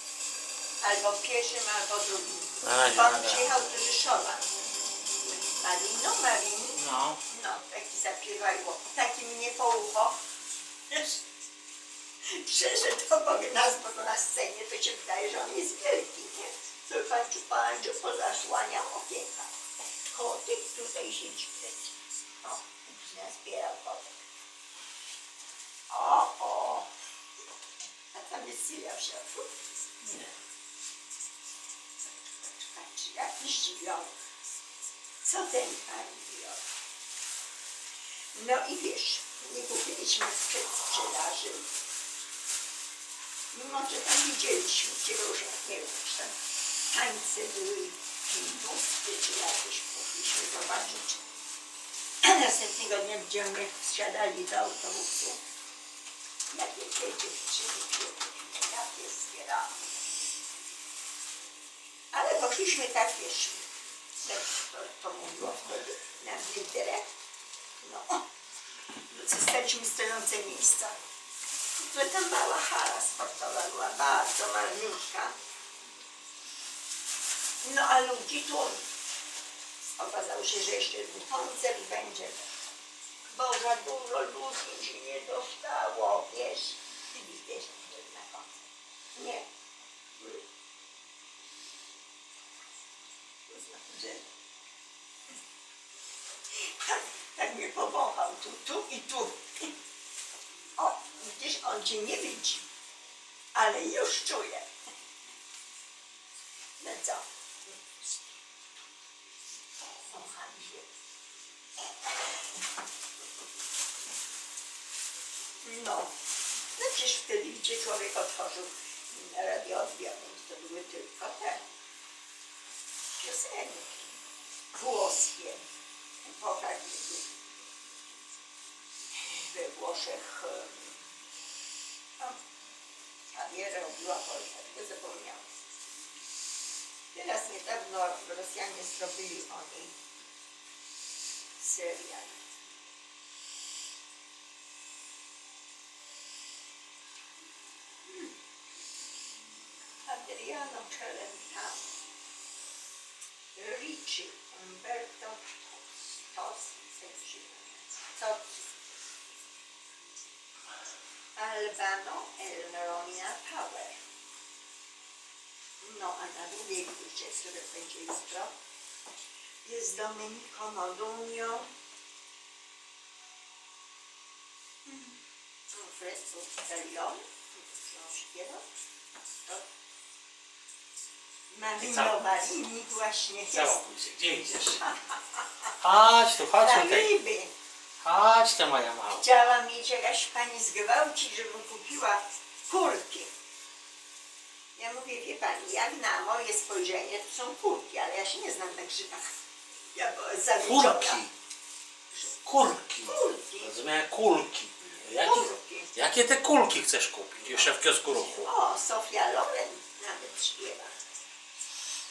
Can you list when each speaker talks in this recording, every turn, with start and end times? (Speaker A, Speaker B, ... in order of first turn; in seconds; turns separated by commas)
Speaker A: 0.8-4.5, Speaker B: 2.6-3.5, Speaker A: 5.2-10.2, Speaker B: 6.8-7.2, Speaker A: 10.9-11.2, Speaker A: 12.2-19.5, Speaker A: 20.1-24.1, Speaker A: 25.9-26.9, Speaker A: 28.1-29.5, Speaker B: 30.0-30.3, Speaker A: 32.5-34.1, Speaker A: 35.2-36.6, Speaker A: 38.4-41.7, Speaker A: 43.5-46.3, Speaker A: 46.9-51.2, Speaker A: 52.2-55.4, Speaker A: 56.5-59.8, Speaker A: 62.1-63.7, Speaker A: 64.2-67.1, Speaker A: 67.8-68.2, Speaker A: 69.1-71.0, Speaker A: 71.8-75.3, Speaker A: 77.6-78.8, Speaker A: 80.0-82.5, Speaker A: 83.3-88.6, Speaker A: 89.2-89.5, Speaker A: 93.5-94.2, Speaker A: 96.5-99.7, Speaker A: 100.8-102.7, Speaker A: 103.5-104.7, Speaker A: 106.8-108.2, Speaker A: 110.1-110.8, Speaker A: 115.6-116.1, Speaker A: 116.8-121.6, Speaker A: 123.2-124.1, Speaker A: 124.8-125.6, Speaker A: 126.2-127.3, Speaker A: 129.3-130.9, Speaker A: 133.3-135.5, Speaker A: 137.1-139.9, Speaker A: 141.6-142.4, Speaker A: 150.1-151.9, Speaker A: 153.6-158.5, Speaker A: 161.4-164.0, Speaker A: 165.8-168.5, Speaker A: 169.7-171.7, Speaker A: 174.9-175.2, Speaker A: 175.7-178.6, Speaker A: 181.5-183.8, Speaker B: 181.8-182.3, Speaker B: 183.5-184.8, Speaker A: 184.8-185.7, Speaker B: 185.8-187.1, Speaker A: 186.5-187.5, Speaker B: 188.0-189.3, Speaker A: 189.1-193.3, Speaker A: 194.8-199.3, Speaker A: 199.9-201.2, Speaker B: 200.6-201.3, Speaker B: 202.5-208.5, Speaker A: 203.0-203.8, Speaker A: 204.9-205.9, Speaker A: 208.3-210.9